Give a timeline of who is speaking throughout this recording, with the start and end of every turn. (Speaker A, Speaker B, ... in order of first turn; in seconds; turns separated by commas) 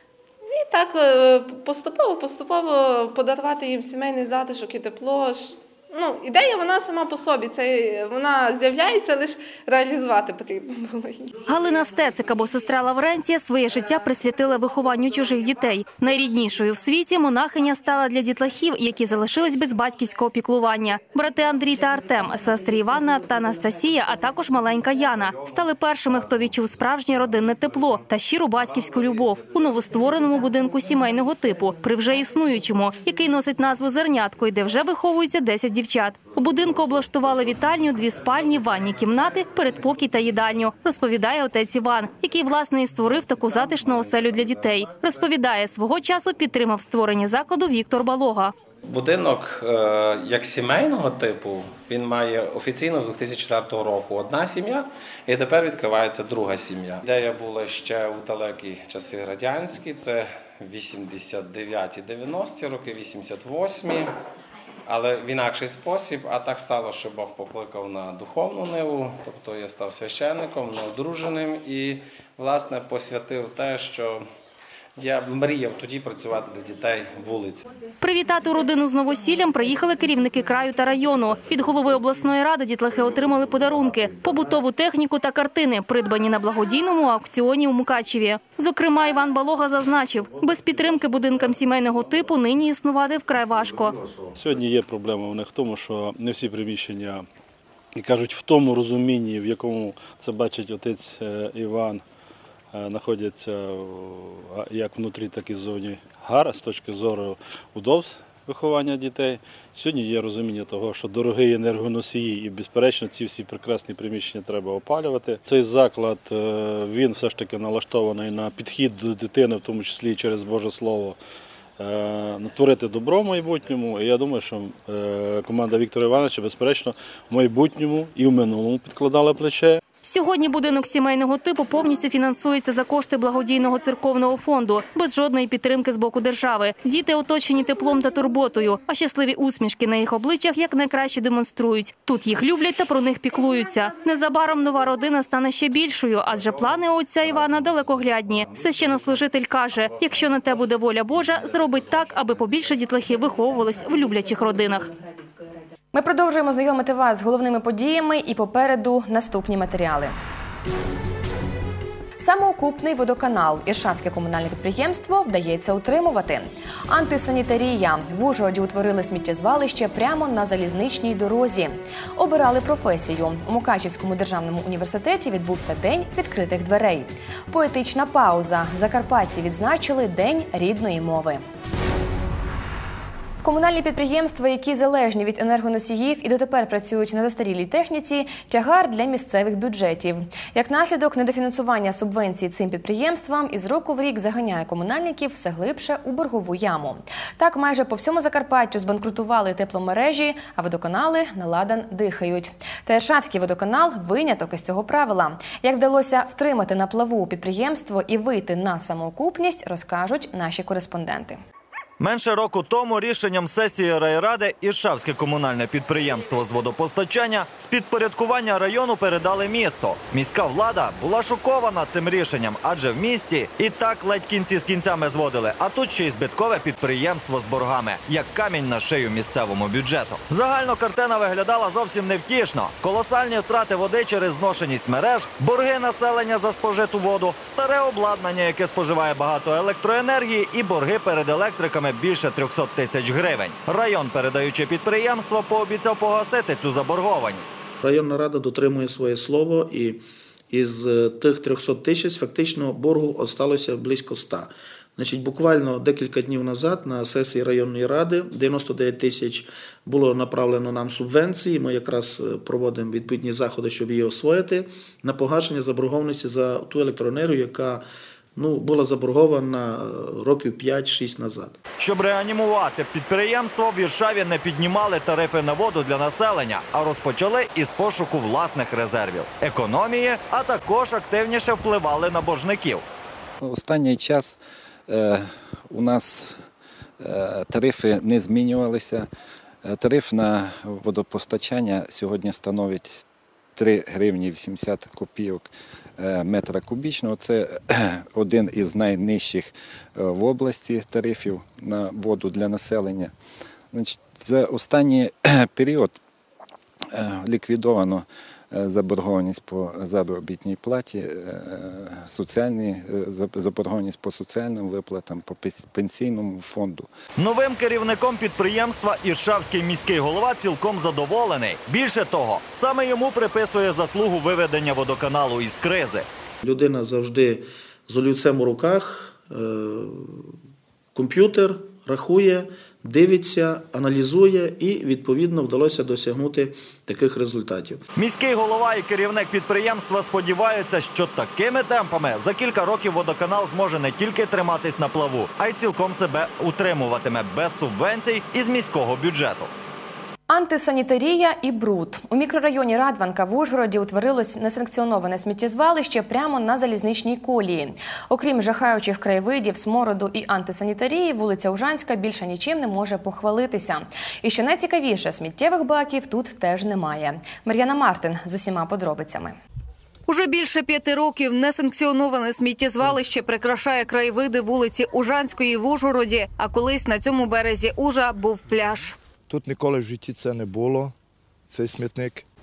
Speaker A: 0.4-11.3, Speaker B: 11.5-48.5, Speaker C: 48.9-64.1, Speaker C: 64.8-74.3, Speaker C: 75.0-77.7, Speaker B: 78.0-93.9, Speaker D: 94.3-97.2, Speaker D: 98.0-102.0, Speaker D: 102.7-121.2, Speaker D: 121.8-129.8, Speaker B: 130.0-154.9, Speaker E: 155.9-160.1, Speaker E: 162.2-181.4, Speaker E: 183.4-211.4, Speaker F: 212.0-247.5, Speaker G: 247.8-267.8, Speaker G: 268.4-271.6, Speaker F: 271.8-282.8, Speaker H: 283.4-286.4, Speaker H: 287.0-289.1, Speaker H: 289.6-293.0, Speaker H: 293.6-303.1, Speaker H: 303.7-306.0, Speaker H: 306.9-316.9, Speaker F: 317.2-326.1, Speaker G: 326.4-330.3, Speaker G: 330.9-337.8, Speaker F: 337.9-349.5, Speaker E: 350.3-369.4, Speaker I: 370.1-378.9, Speaker J: 379.3-380.9, Speaker J: 381.5-382.2